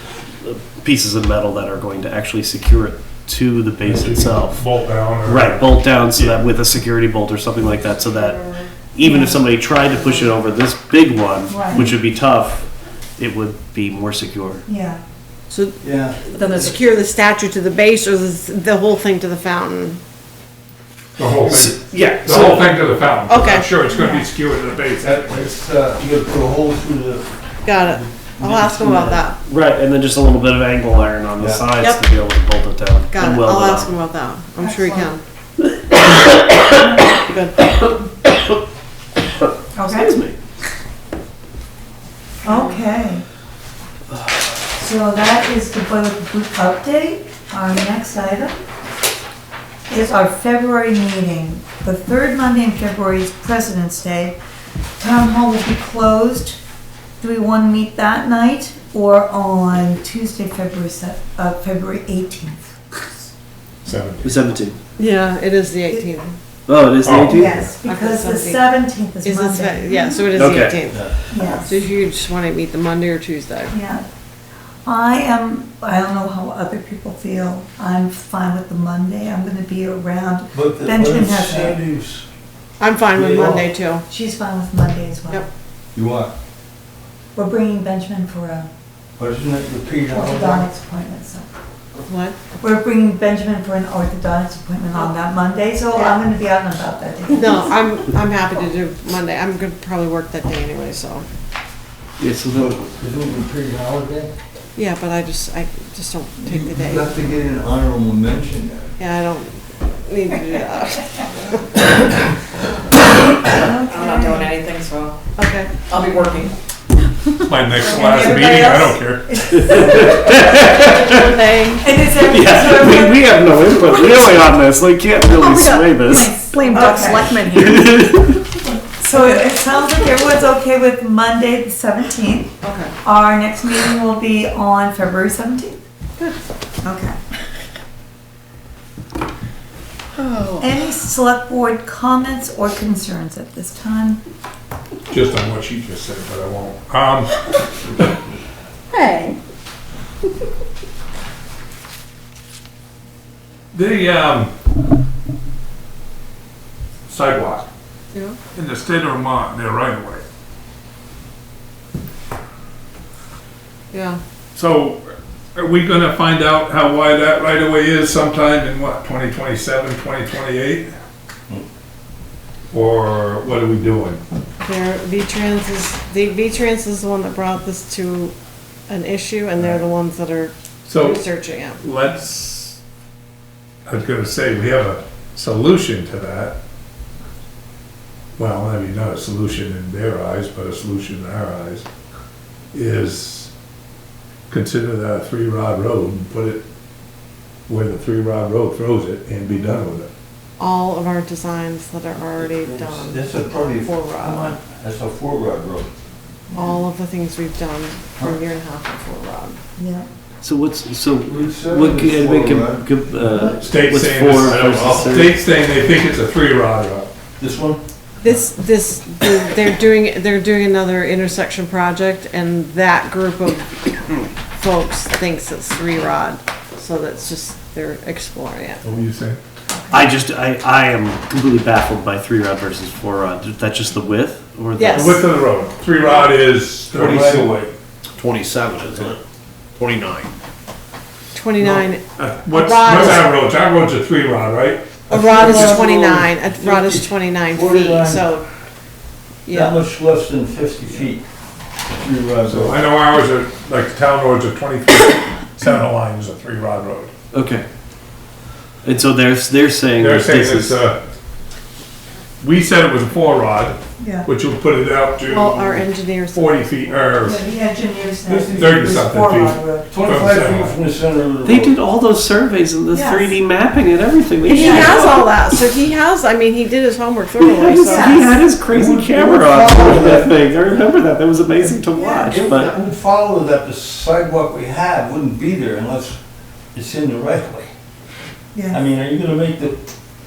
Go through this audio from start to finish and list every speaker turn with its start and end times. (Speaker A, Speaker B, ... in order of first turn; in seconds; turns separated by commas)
Speaker A: 0.4-4.6, Speaker B: 3.8-5.7, Speaker A: 5.2-8.4, Speaker A: 8.9-14.6, Speaker C: 9.0-9.4, Speaker C: 11.5-11.9, Speaker C: 14.7-15.0, Speaker D: 15.5-20.0, Speaker E: 15.8-16.7, Speaker B: 21.2-25.4, Speaker A: 21.4-22.8, Speaker D: 23.3-23.7, Speaker C: 23.9-24.3, Speaker E: 25.0-29.2, Speaker D: 27.6-29.4, Speaker A: 29.4-33.9, Speaker E: 31.4-31.7, Speaker D: 31.8-32.0, Speaker D: 33.1-35.2, Speaker C: 34.6-35.1, Speaker D: 37.1-37.7, Speaker C: 39.7-40.1, Speaker A: 39.9-40.4, Speaker C: 42.4-43.2, Speaker D: 42.5-42.8, Speaker C: 44.8-48.6, Speaker C: 49.9-54.4, Speaker C: 55.0-56.6, Speaker C: 57.2-63.2, Speaker B: 63.8-64.3, Speaker A: 64.2-64.8, Speaker D: 65.0-66.4, Speaker A: 66.7-67.7, Speaker B: 67.0-67.4, Speaker C: 67.3-70.4, Speaker D: 67.8-73.7, Speaker A: 70.3-70.8, Speaker C: 71.3-71.7, Speaker C: 73.7-74.0, Speaker C: 74.8-81.8, Speaker E: 80.5-82.2, Speaker D: 82.8-84.0, Speaker E: 83.1-83.7, Speaker C: 84.1-85.4, Speaker E: 85.9-86.3, Speaker C: 87.3-88.7, Speaker E: 89.2-90.7, Speaker C: 90.1-91.5, Speaker D: 92.0-92.4, Speaker C: 92.6-97.8, Speaker D: 97.3-101.2, Speaker A: 102.2-102.8, Speaker E: 102.5-104.3, Speaker D: 104.7-107.2, Speaker E: 106.4-108.9, Speaker D: 109.0-112.0, Speaker C: 113.1-114.6, Speaker F: 113.8-115.2, Speaker D: 115.3-116.0, Speaker F: 115.9-116.5, Speaker B: 117.4-119.4, Speaker F: 117.8-118.3, Speaker C: 117.8-120.1, Speaker A: 119.5-121.1, Speaker D: 120.2-121.9, Speaker C: 121.8-123.3, Speaker A: 122.2-126.5, Speaker F: 125.3-128.1, Speaker C: 126.5-127.5, Speaker A: 127.5-128.3, Speaker C: 128.5-135.8, Speaker D: 132.6-132.9, Speaker C: 136.8-137.2, Speaker D: 140.2-140.6, Speaker C: 140.6-144.2, Speaker B: 145.1-148.1, Speaker F: 148.9-149.3, Speaker B: 153.7-154.5, Speaker B: 157.1-157.7, Speaker D: 158.1-158.4, Speaker B: 158.5-160.2, Speaker D: 163.9-164.2, Speaker B: 164.5-170.9, Speaker B: 172.7-174.2, Speaker D: 174.6-178.3, Speaker D: 178.9-181.8, Speaker B: 180.9-181.2, Speaker B: 181.8-182.8, Speaker B: 183.8-186.6, Speaker B: 188.4-191.8, Speaker B: 192.7-193.5, Speaker B: 194.5-196.6, Speaker B: 197.7-200.1, Speaker D: 200.6-204.6, Speaker E: 202.4-205.9, Speaker D: 206.5-209.6, Speaker C: 209.8-210.0, Speaker A: 210.4-215.3, Speaker E: 211.2-212.9, Speaker B: 213.6-217.1, Speaker G: 214.5-215.0, Speaker E: 217.4-217.8, Speaker D: 218.2-223.8, Speaker D: 224.5-228.8, Speaker B: 228.8-229.4, Speaker A: 229.9-235.2, Speaker D: 234.8-235.3, Speaker B: 234.9-237.6, Speaker E: 236.9-237.7, Speaker G: 238.2-239.2, Speaker G: 239.8-240.3, Speaker D: 241.3-243.3, Speaker B: 241.6-245.9, Speaker D: 245.1-248.4, Speaker E: 245.1-248.2, Speaker D: 249.4-249.8, Speaker E: 249.5-251.2, Speaker E: 251.9-252.9, Speaker B: 252.4-257.1, Speaker A: 257.3-257.6, Speaker A: 258.8-260.8, Speaker B: 260.0-261.0, Speaker B: 262.4-267.4, Speaker C: 264.0-264.3, Speaker D: 265.2-266.9, Speaker C: 267.2-269.9, Speaker E: 268.3-268.7, Speaker B: 268.5-270.8, Speaker E: 269.9-271.8, Speaker A: 271.4-275.2, Speaker C: 272.9-273.3, Speaker D: 274.4-278.3, Speaker C: 274.5-275.0, Speaker A: 277.4-282.7, Speaker C: 277.8-278.4, Speaker E: 278.7-280.4, Speaker C: 281.9-282.3, Speaker E: 282.3-286.2, Speaker E: 286.7-287.7, Speaker C: 288.5-288.8, Speaker E: 288.7-289.8